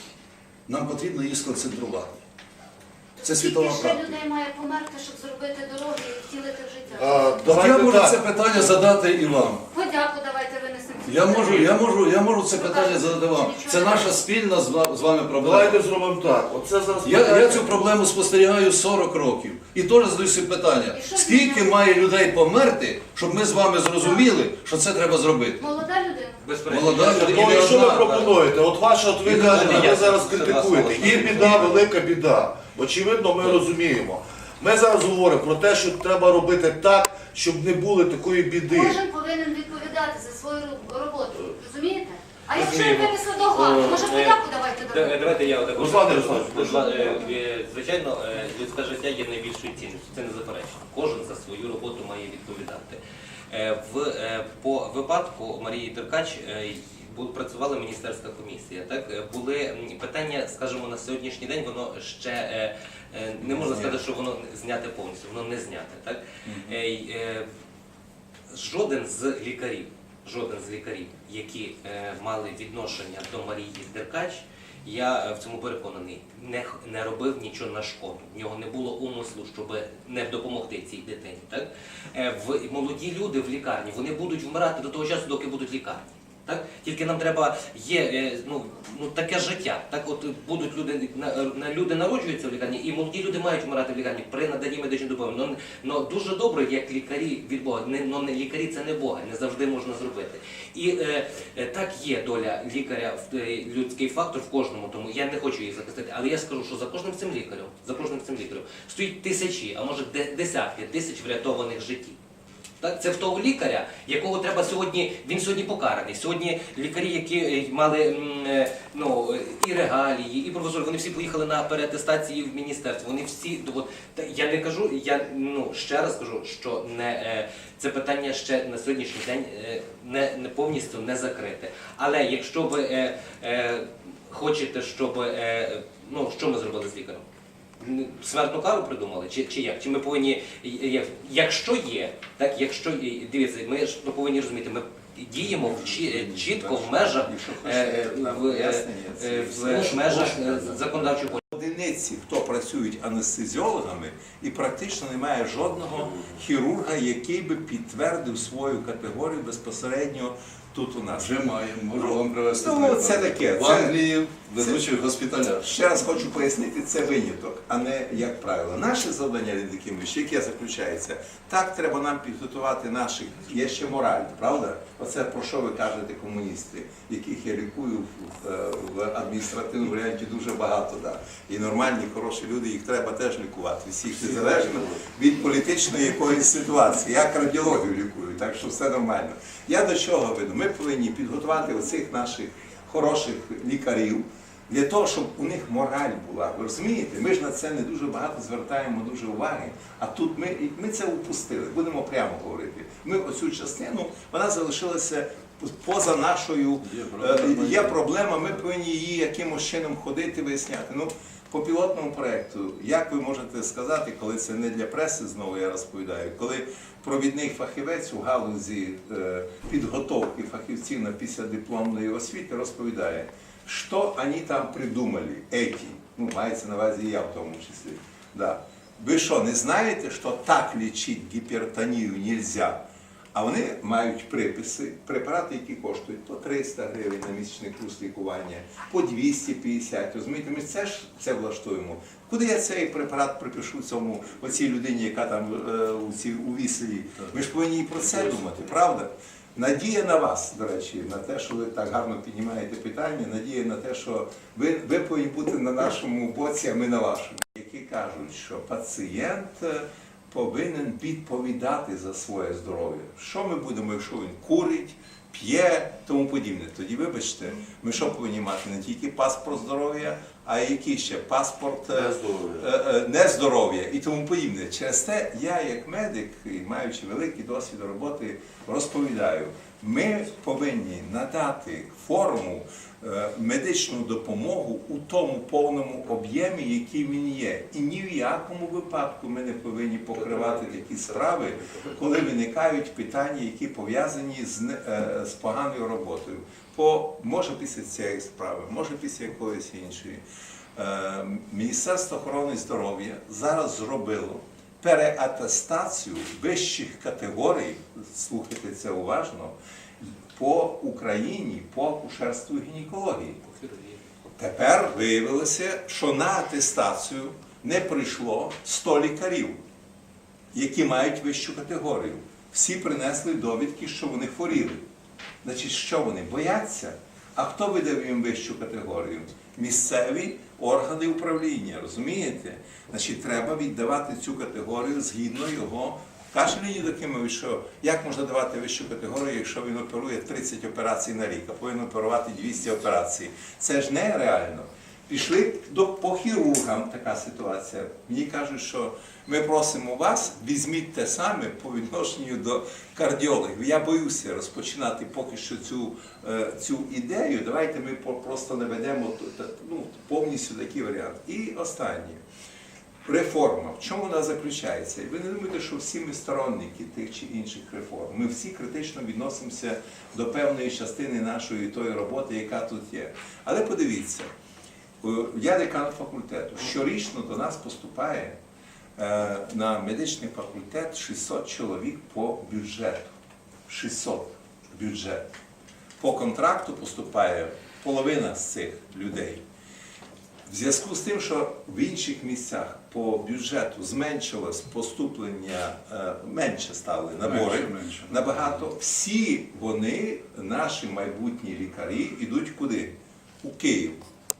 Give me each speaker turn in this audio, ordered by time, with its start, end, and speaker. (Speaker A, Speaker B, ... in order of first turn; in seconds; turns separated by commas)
Speaker A: 0.7-2.2, Speaker B: 3.2-7.3, Speaker A: 3.2-4.2, Speaker C: 7.0-8.2, Speaker A: 7.4-9.7, Speaker B: 9.7-11.8, Speaker A: 11.1-15.8, Speaker B: 12.5-14.1, Speaker C: 15.4-17.8, Speaker A: 17.0-25.6, Speaker B: 20.9-21.7, Speaker B: 25.6-26.4, Speaker D: 26.4-28.5, Speaker A: 26.7-28.0, Speaker C: 27.0-39.0, Speaker D: 29.2-31.8, Speaker A: 29.3-30.1, Speaker A: 31.0-31.7, Speaker B: 38.7-45.3, Speaker D: 42.5-67.5, Speaker C: 45.7-47.0, Speaker B: 46.7-47.4, Speaker A: 63.4-64.0, Speaker A: 66.5-66.8, Speaker D: 68.5-112.2, Speaker D: 112.8-137.2, Speaker D: 137.8-151.4, Speaker E: 145.4-161.4, Speaker A: 161.1-165.7, Speaker E: 162.0-164.0, Speaker E: 165.6-232.8, Speaker A: 206.8-208.5, Speaker E: 233.3-300.2, Speaker D: 290.2-291.8, Speaker E: 300.8-309.6, Speaker E: 310.3-313.4, Speaker D: 313.5-314.0, Speaker E: 314.4-319.6, Speaker E: 320.5-324.8, Speaker E: 325.4-362.2, Speaker E: 363.1-374.3, Speaker E: 375.0-378.4, Speaker E: 379.0-383.1, Speaker E: 383.7-385.2, Speaker E: 386.0-389.4, Speaker E: 390.5-404.0, Speaker A: 397.2-398.7